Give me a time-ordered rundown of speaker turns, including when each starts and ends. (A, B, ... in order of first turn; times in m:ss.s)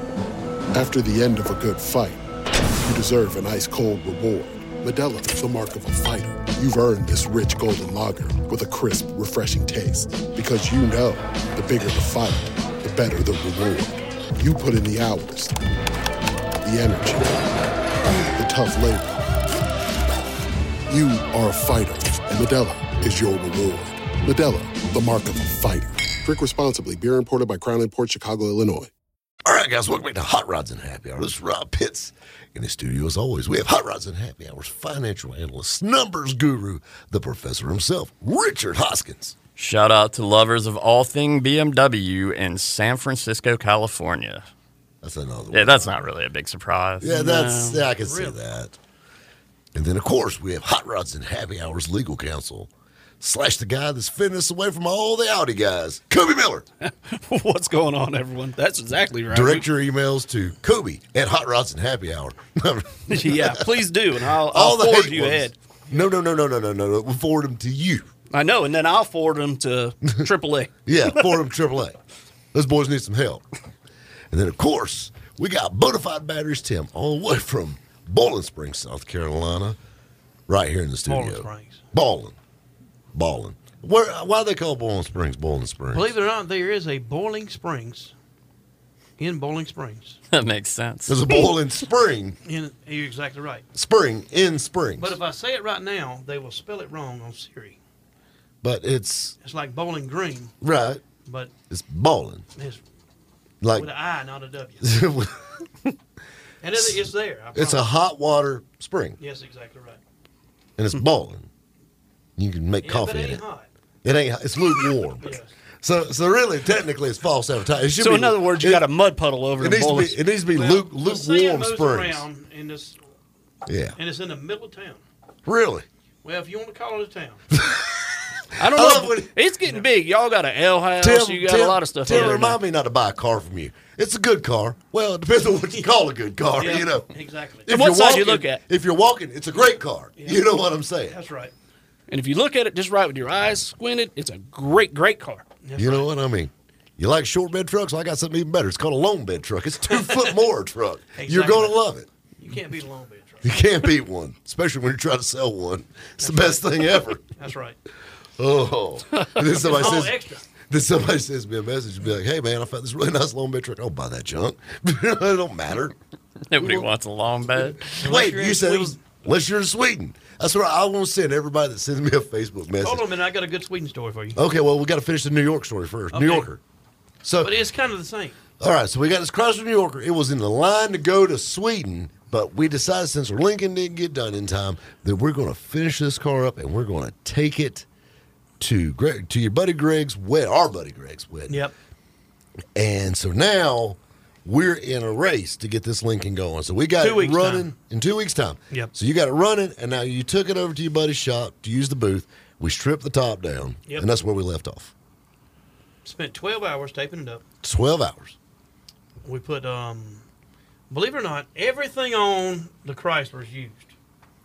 0:00.7-0:02.2 A
0:02.8-0:15.6 A
0:16.6-0:17.4 A
0:18.3-0:19.2 A
0:20.9-0:28.9 A
0:29.4-0:39.4 B
0:39.6-0:44.4 C
0:45.0-0:45.9 B
0:45.5-0:47.1 C
0:47.0-0:48.8 B
0:47.0-0:47.9 D
0:48.0-0:48.4 E
0:49.7-0:56.6 B
0:56.8-0:59.7 D
0:59.3-1:03.7 B
1:03.1-1:05.6 D
1:04.5-1:08.1 B
1:08.3-1:10.7 D
1:10.9-1:12.0 B
1:12.5-1:13.4 B
1:14.3-1:19.8 B
1:20.5-1:22.4 B
1:21.1-1:21.8 E
1:23.1-1:26.1 B
1:25.9-1:28.1 E
1:29.2-1:30.2 E
1:30.3-1:31.2 C
1:31.1-1:32.4 B
1:32.4-1:33.6 E
1:33.8-1:35.2 B
1:35.0-1:37.8 E
1:38.6-1:39.4 B
1:39.4-1:40.5 E
1:40.6-1:41.0 B
1:41.2-1:41.5 E
1:41.7-1:42.5 B
1:42.6-1:42.8 E
1:43.6-1:43.9 B
1:43.7-1:45.0 E
1:44.8-1:45.6 B
1:46.6-1:47.8 E
1:47.6-1:49.2 B
1:49.2-1:50.0 E
1:50.8-1:51.5 B
1:52.4-1:53.4 B
1:52.8-1:53.7 E
1:54.0-1:58.9 B
1:55.2-1:55.5 E
1:58.0-2:00.2 D
1:59.6-2:02.2 B
2:00.5-2:03.0 E
2:03.6-2:04.0 B
2:04.0-2:05.0 E
2:05.5-2:05.9 B
2:06.2-2:07.4 E
2:07.6-2:09.4 B
2:08.6-2:12.6 D
2:11.0-2:17.1 B
2:12.1-2:12.5 E
2:16.6-2:17.7 E
2:17.7-2:21.2 B
2:17.7-2:18.6 D
2:20.2-2:20.4 E
2:21.1-2:21.5 E
2:22.1-2:25.5 D
2:25.6-2:26.1 E
2:25.8-2:32.1 B
2:29.9-2:30.4 E
2:31.1-2:31.8 E
2:32.4-2:33.5 E
2:33.4-2:37.2 B
2:36.2-2:37.8 E
2:38.4-2:46.0 B
2:39.6-2:40.4 E
2:46.5-2:48.0 C
2:46.6-2:46.9 B
2:47.6-2:53.0 B
2:48.0-2:49.0 E
2:52.8-2:54.4 E
2:54.4-2:56.6 B
2:56.1-2:56.5 E
2:57.2-2:57.5 B
2:57.4-2:58.4 E
2:58.6-3:07.9 B
3:08.6-3:11.6 B
3:11.5-3:11.7 E
3:12.8-3:24.9 B
3:17.0-3:17.7 E
3:26.0-3:27.4 E
3:27.6-3:28.4 B
3:29.2-3:30.2 E
3:30.9-3:34.0 E